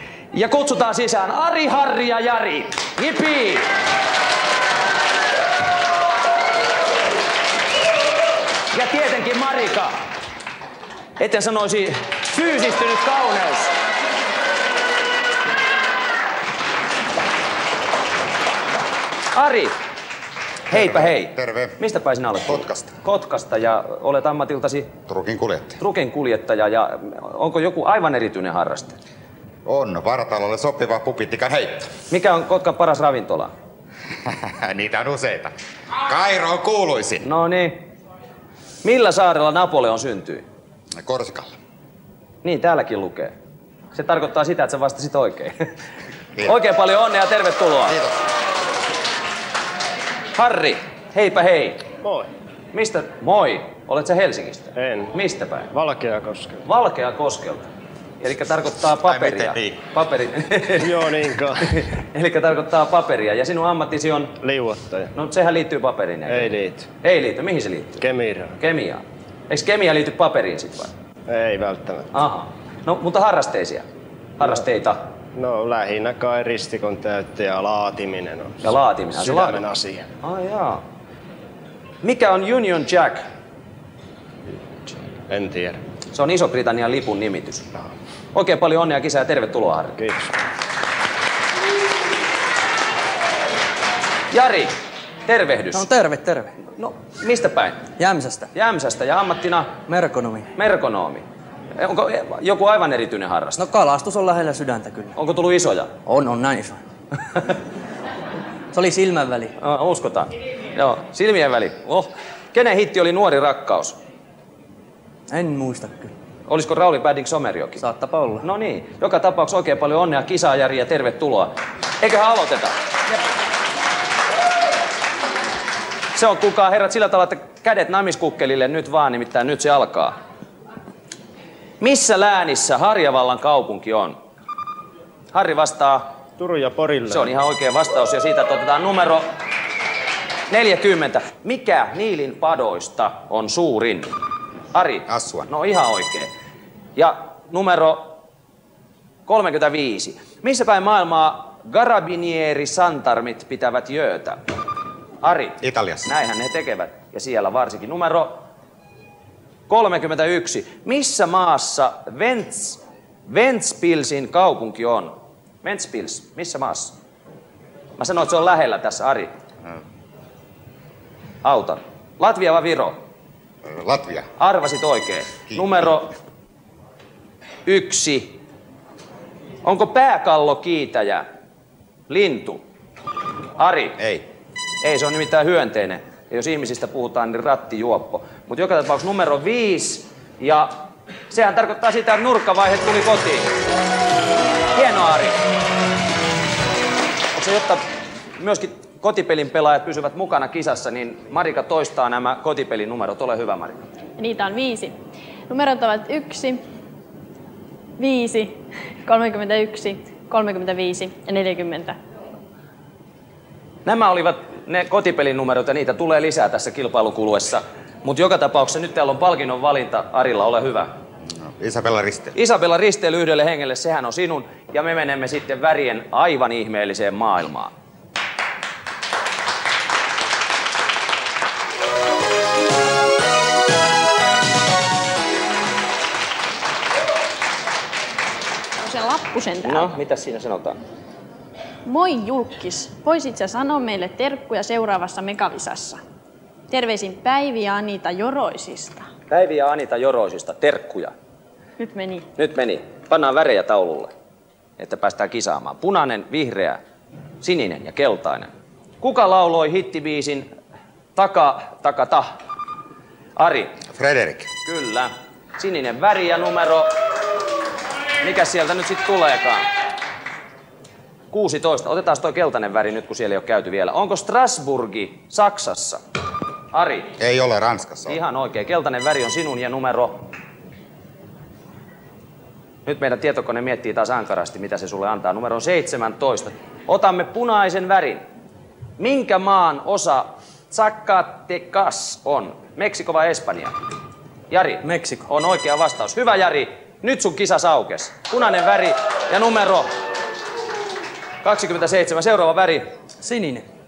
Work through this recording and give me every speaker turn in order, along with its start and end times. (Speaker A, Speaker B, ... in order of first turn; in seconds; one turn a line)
Speaker A: 0.3-3.7
Speaker A: 8.7-9.9
Speaker A: 11.2-13.7
Speaker A: 19.3-19.7
Speaker B: 20.7-21.8
Speaker A: 20.7-24.9
Speaker B: 25.1-25.8
Speaker A: 25.8-29.0
Speaker B: 29.6-31.9
Speaker A: 32.1-33.5
Speaker B: 34.2-37.3
Speaker A: 37.2-37.9
Speaker A: 38.8-40.4
Speaker B: 41.0-41.5
Speaker A: 42.4-43.3
Speaker A: 43.9-45.7
Speaker A: 46.4-48.0
Speaker B: 47.9-48.2
Speaker A: 50.3-51.8
Speaker C: 52.0-52.3
Speaker A: 52.7-55.7
Speaker C: 54.8-55.1
Speaker C: 55.7-56.6
Speaker A: 56.6-57.7
Speaker A: 58.2-60.9
Speaker B: 59.0-59.8
Speaker C: 60.8-61.8
Speaker A: 61.6-64.3
Speaker C: 64.4-65.1
Speaker A: 65.1-68.0
Speaker C: 66.3-66.9
Speaker C: 68.0-68.5
Speaker A: 68.6-70.9
Speaker C: 71.3-72.1
Speaker A: 72.1-73.8
Speaker A: 74.4-75.0
Speaker C: 75.3-80.1
Speaker A: 78.6-79.6
Speaker A: 80.2-80.8
Speaker A: 82.0-83.2
Speaker C: 84.9-85.8
Speaker A: 86.1-87.7
Speaker A: 88.3-90.0
Speaker C: 90.0-90.3
Speaker A: 94.3-94.7
Speaker A: 95.3-95.9
Speaker D: 95.7-96.5
Speaker A: 96.7-97.9
Speaker D: 98.0-98.5
Speaker A: 98.5-99.8
Speaker D: 99.9-100.5
Speaker A: 100.5-103.6
Speaker D: 103.6-105.1
Speaker A: 105.2-105.9
Speaker D: 106.0-106.8
Speaker D: 108.7-109.5
Speaker A: 109.6-114.0
Speaker D: 115.3-116.1
Speaker A: 116.5-117.8
Speaker D: 117.8-118.4
Speaker A: 118.4-122.7
Speaker A: 126.1-130.1
Speaker A: 131.8-134.2
Speaker A: 135.3-136.1
Speaker C: 136.4-137.3
Speaker A: 137.1-139.2
Speaker A: 140.5-144.1
Speaker A: 144.7-146.3
Speaker B: 145.1-145.5
Speaker A: 146.9-148.1
Speaker A: 149.3-154.4
Speaker A: 155.2-158.4
Speaker B: 155.6-156.1
Speaker A: 159.7-166.9
Speaker A: 168.0-169.3
Speaker A: 171.4-172.9
Speaker B: 173.7-174.3
Speaker A: 174.4-176.1
Speaker A: 177.7-178.4
Speaker A: 179.6-181.2
Speaker A: 182.1-182.6
Speaker A: 183.6-184.0
Speaker B: 184.0-184.2
Speaker A: 184.8-193.5
Speaker A: 194.7-195.4
Speaker A: 197.3-197.8
Speaker A: 198.4-203.8
Speaker E: 204.2-204.9
Speaker E: 205.5-206.6
Speaker E: 208.0-211.9
Speaker A: 213.8-220.9
Speaker B: 221.4-222.3
Speaker A: 222.3-227.7
Speaker E: 238.8-239.9
Speaker A: 239.6-240.8
Speaker E: 241.8-246.0
Speaker E: 246.7-249.1
Speaker A: 249.3-251.1
Speaker E: 251.8-252.3
Speaker A: 252.3-254.1
Speaker A: 254.8-256.8
Speaker A: 257.4-260.5
Speaker A: 261.1-262.4
Speaker A: 263.4-263.8
Speaker B: 263.9-264.5
Speaker A: 264.6-266.9
Speaker A: 268.2-269.7
Speaker A: 271.3-276.0
Speaker A: 276.7-277.1
Speaker B: 277.2-278.2
Speaker A: 278.1-280.3
Speaker A: 282.9-288.2
Speaker A: 289.0-293.7
Speaker A: 294.5-299.9
Speaker D: 294.8-295.2
Speaker A: 301.4-302.8
Speaker D: 303.2-303.6